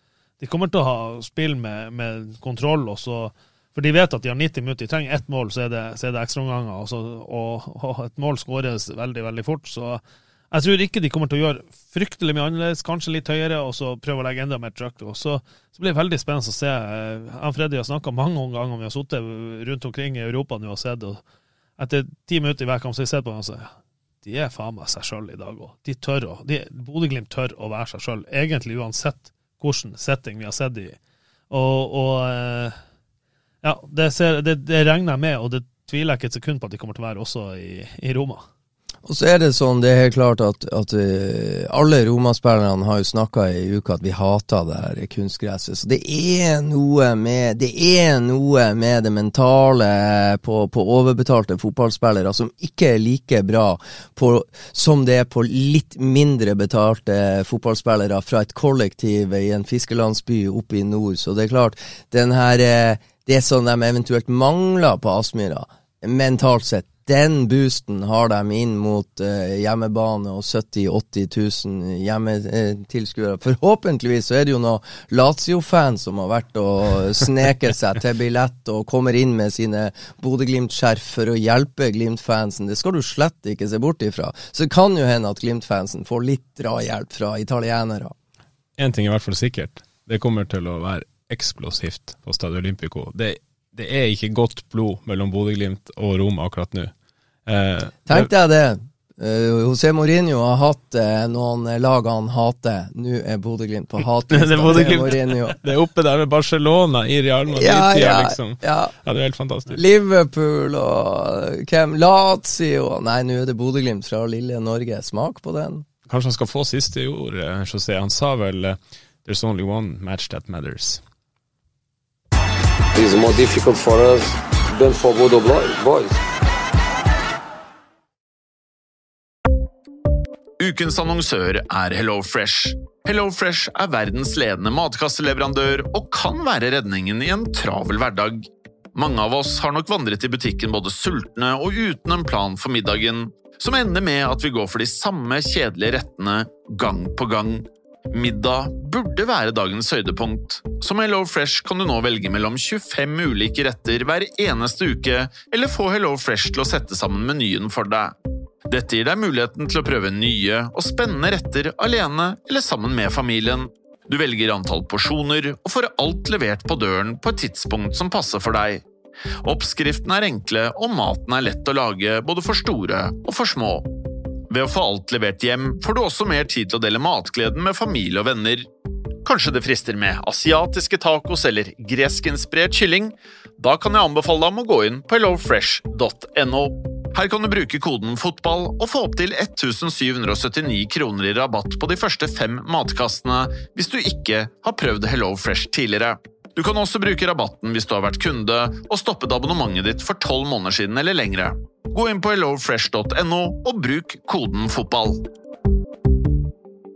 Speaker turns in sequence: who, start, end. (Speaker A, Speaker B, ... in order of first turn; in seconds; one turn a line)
Speaker A: 0.4-21.2
Speaker A: 21.8-31.0
Speaker A: 31.5-32.8
Speaker A: 33.6-38.4
Speaker B: 39.0-88.1
Speaker C: 88.8-96.9
Speaker C: 97.5-98.3
Speaker B: 98.1-105.6
Speaker C: 104.3-109.8
Speaker B: 107.5-108.9
Speaker B: 109.7-115.8
Speaker C: 116.1-121.0
Speaker D: 122.9-126.2
Speaker E: 130.6-158.1
Speaker E: 158.7-168.8
Speaker E: 169.4-173.8
Speaker E: 174.5-178.7
Speaker E: 179.2-205.2